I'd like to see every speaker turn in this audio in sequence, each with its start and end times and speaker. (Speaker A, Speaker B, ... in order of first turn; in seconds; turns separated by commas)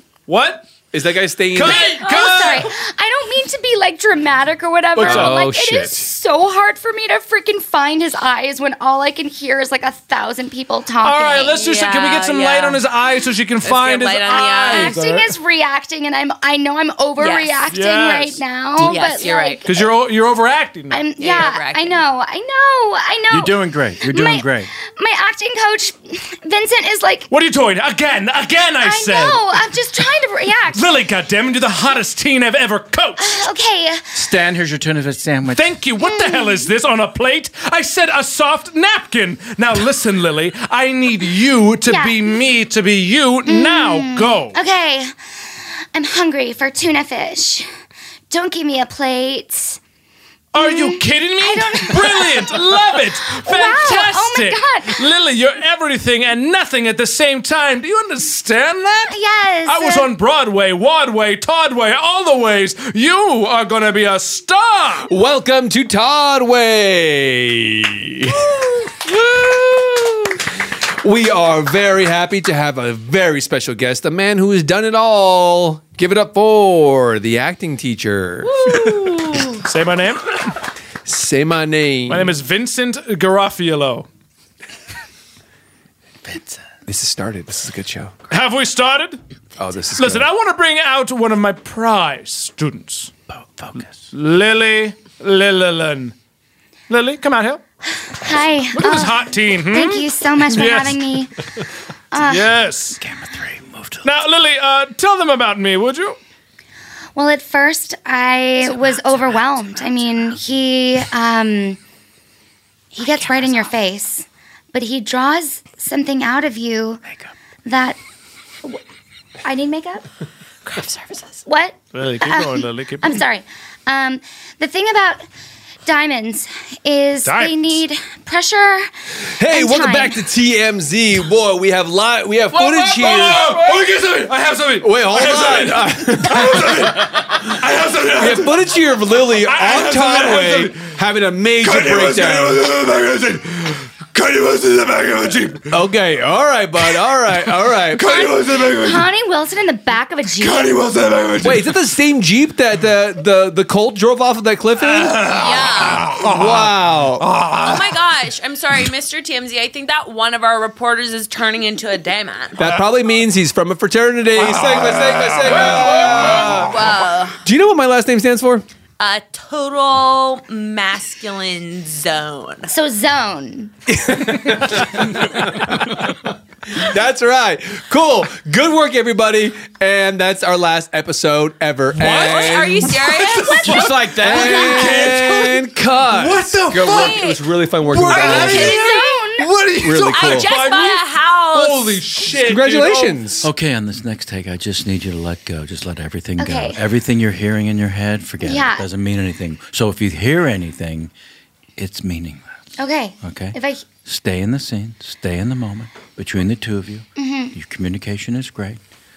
Speaker A: 0.3-0.7, Speaker B: 0.9-1.9, Speaker A: 1.5-2.7, Speaker C: 1.6-11.6, Speaker D: 2.0-2.3, Speaker B: 5.0-6.1, Speaker A: 5.0-5.5, Speaker A: 11.0-15.3, Speaker D: 11.5-12.9, Speaker D: 13.6-15.0, Speaker C: 14.3-19.9, Speaker D: 17.2-17.6, Speaker A: 17.7-19.0, Speaker D: 18.8-19.6, Speaker A: 19.6-21.0, Speaker C: 20.9-27.3, Speaker D: 21.2-22.0, Speaker E: 23.3-24.7, Speaker A: 27.3-29.4, Speaker C: 28.8-30.9, Speaker A: 30.7-33.5, Speaker C: 33.2-34.2, Speaker E: 34.1-35.6, Speaker A: 35.5-44.5, Speaker C: 36.0-36.7, Speaker C: 41.9-42.3, Speaker C: 43.4-45.2, Speaker C: 45.9-47.7, Speaker C: 48.3-49.8, Speaker A: 50.5-65.1, Speaker C: 50.5-55.1, Speaker C: 59.1-60.1, Speaker B: 65.1-68.4, Speaker B: 71.0-78.6, Speaker D: 78.4-79.6, Speaker A: 78.7-80.3, Speaker B: 81.0-82.4, Speaker A: 82.1-84.1, Speaker B: 86.8-88.2, Speaker A: 88.3-89.2, Speaker B: 89.5-90.3, Speaker A: 90.0-93.1, Speaker E: 93.3-94.0, Speaker A: 94.1-96.1, Speaker A: 96.9-97.6, Speaker C: 98.1-101.3, Speaker A: 98.7-101.1, Speaker C: 102.1-102.6, Speaker A: 102.2-103.0, Speaker E: 103.0-104.1, Speaker A: 104.0-106.2, Speaker C: 107.2-111.8, Speaker C: 112.9-117.0, Speaker D: 113.1-113.7, Speaker C: 117.7-118.0, Speaker C: 119.4-120.0, Speaker D: 120.7-121.4, Speaker C: 121.5-125.2, Speaker A: 121.9-123.2, Speaker C: 125.8-130.2, Speaker A: 127.2-127.8, Speaker B: 129.3-133.8, Speaker A: 132.5-140.9, Speaker B: 134.8-136.9, Speaker B: 138.0-142.8, Speaker A: 141.6-145.7, Speaker B: 145.6-148.2, Speaker A: 147.9-149.0, Speaker C: 147.9-150.8, Speaker A: 150.4-151.7, Speaker B: 151.4-155.3, Speaker A: 154.8-157.6, Speaker D: 155.3-156.1, Speaker B: 156.0-157.2, Speaker D: 157.6-162.6, Speaker B: 162.6-168.6, Speaker A: 164.3-166.7, Speaker D: 166.5-167.4, Speaker D: 169.0-172.7, Speaker C: 172.7-173.7, Speaker B: 173.9-176.1, Speaker B: 176.7-188.8, Speaker A: 182.0-193.4, Speaker D: 182.0-184.8, Speaker E: 183.8-184.3, Speaker D: 186.9-187.4, Speaker D: 188.0-189.2, Speaker C: 188.2-189.6, Speaker B: 189.7-190.6, Speaker D: 190.0-192.2, Speaker B: 192.2-193.5, Speaker E: 193.4-201.1, Speaker C: 196.4-196.8, Speaker C: 198.4-198.9, Speaker E: 201.8-202.5, Speaker C: 202.8-203.9, Speaker E: 203.2-208.8, Speaker C: 207.2-207.5